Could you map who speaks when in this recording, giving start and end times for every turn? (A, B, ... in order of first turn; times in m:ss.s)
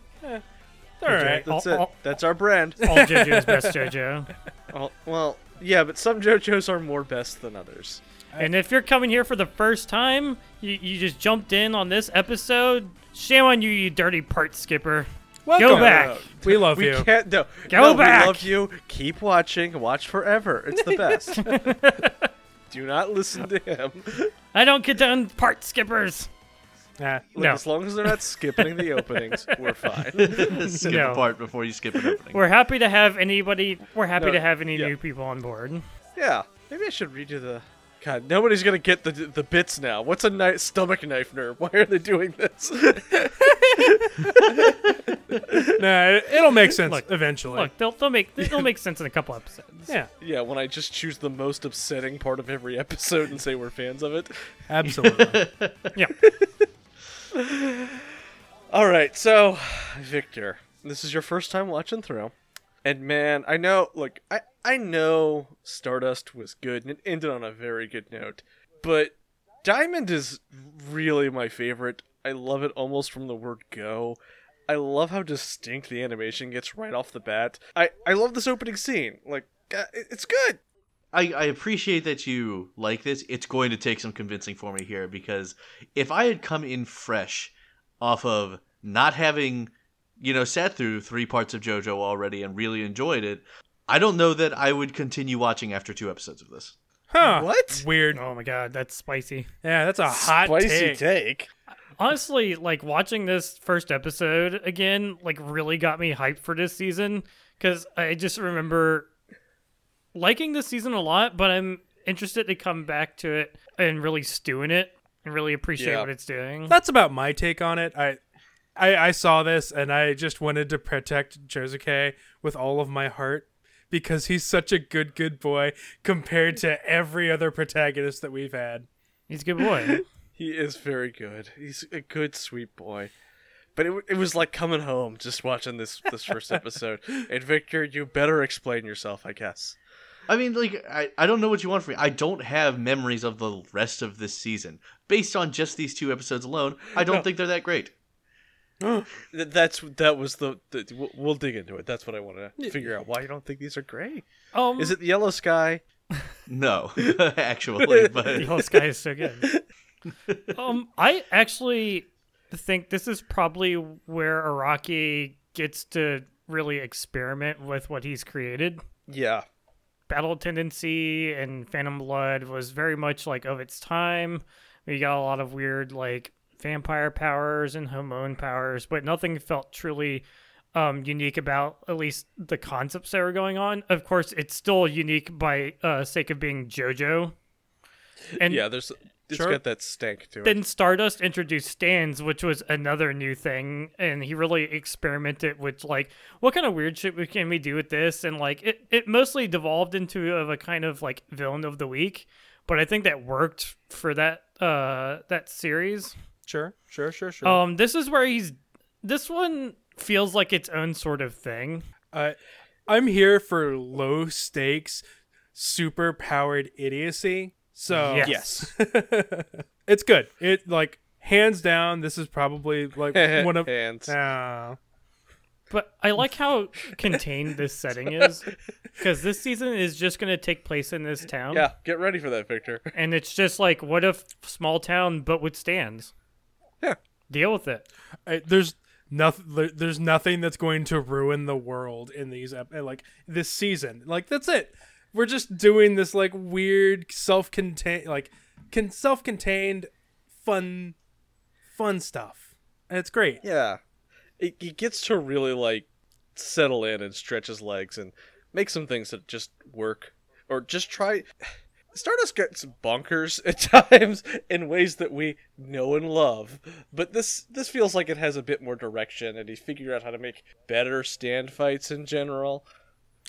0:01.0-0:01.4 A
0:01.0-0:02.8 B
0:01.5-0:01.9 C
0:02.8-0:04.3 C
0:02.8-0:03.9 A
0:04.7-0:08.0 B
0:08.4-0:16.2 C
0:15.4-0:17.1 A
0:15.6-0:21.4 B
0:17.7-0:18.4 C
0:20.8-0:21.7 A
0:21.4-0:22.3 C
0:22.7-0:24.3 B
0:24.5-0:26.3 C
0:27.0-0:27.4 A
0:27.4-0:30.4 B
0:27.4-0:28.2 C
0:28.7-0:29.6 C
0:30.2-0:32.4 D
0:30.4-0:30.8 A
0:30.8-0:31.2 C
0:32.3-0:35.8 C
0:34.2-0:34.9 B
0:36.2-0:44.6 B
0:43.4-0:44.7 A
0:45.5-0:45.7 B
0:45.7-0:47.7 A
0:46.8-0:49.9 C
0:48.4-0:48.7 B
0:50.2-0:54.3 B
0:54.7-0:55.4 A
0:54.8-0:55.9 D
0:56.2-0:56.7 B
0:57.3-0:58.1 B
0:58.7-1:02.3 B
1:02.8-1:20.6 B
1:21.1-1:36.7 D
1:37.1-1:38.2 A
1:37.2-1:37.8 B
1:38.1-1:39.5 C
1:39.6-1:41.0 A
1:40.1-1:41.5 B
1:42.0-1:49.1 C
1:50.1-1:56.8 C
1:55.8-1:56.1 B
1:56.7-1:58.2 A
1:58.8-2:08.9 A
2:09.3-2:10.0 C
2:10.4-2:13.1 B
2:13.8-2:19.8 B
2:20.3-2:27.9 D
2:28.8-2:29.1 A
2:29.3-2:34.2 B
2:34.5-2:35.0 C
2:34.8-2:35.8 B
2:36.5-2:38.5 D
2:37.8-2:38.7 B
2:38.4-2:39.5 C
2:40.5-2:48.8 C
2:49.1-2:49.4 B
2:50.1-3:07.3 C
3:08.4-3:10.6 B
3:08.4-3:08.6 C
3:09.3-3:09.6 A
3:10.4-3:26.1 C
3:26.4-3:27.6 A
3:27.4-3:31.8 C
3:32.9-3:35.0 A
3:35.5-3:44.8 A
3:38.0-3:38.4 C
3:38.2-3:38.7 B
3:43.1-3:44.1 B
3:45.7-3:51.7 C
3:51.5-3:52.9 B
3:52.9-3:56.1 C
3:57.3-3:57.8 C
3:58.2-4:11.0 A
4:11.7-4:13.4 A
4:13.4-4:13.8 B
4:14.4-4:21.3 B
4:21.9-4:32.6 B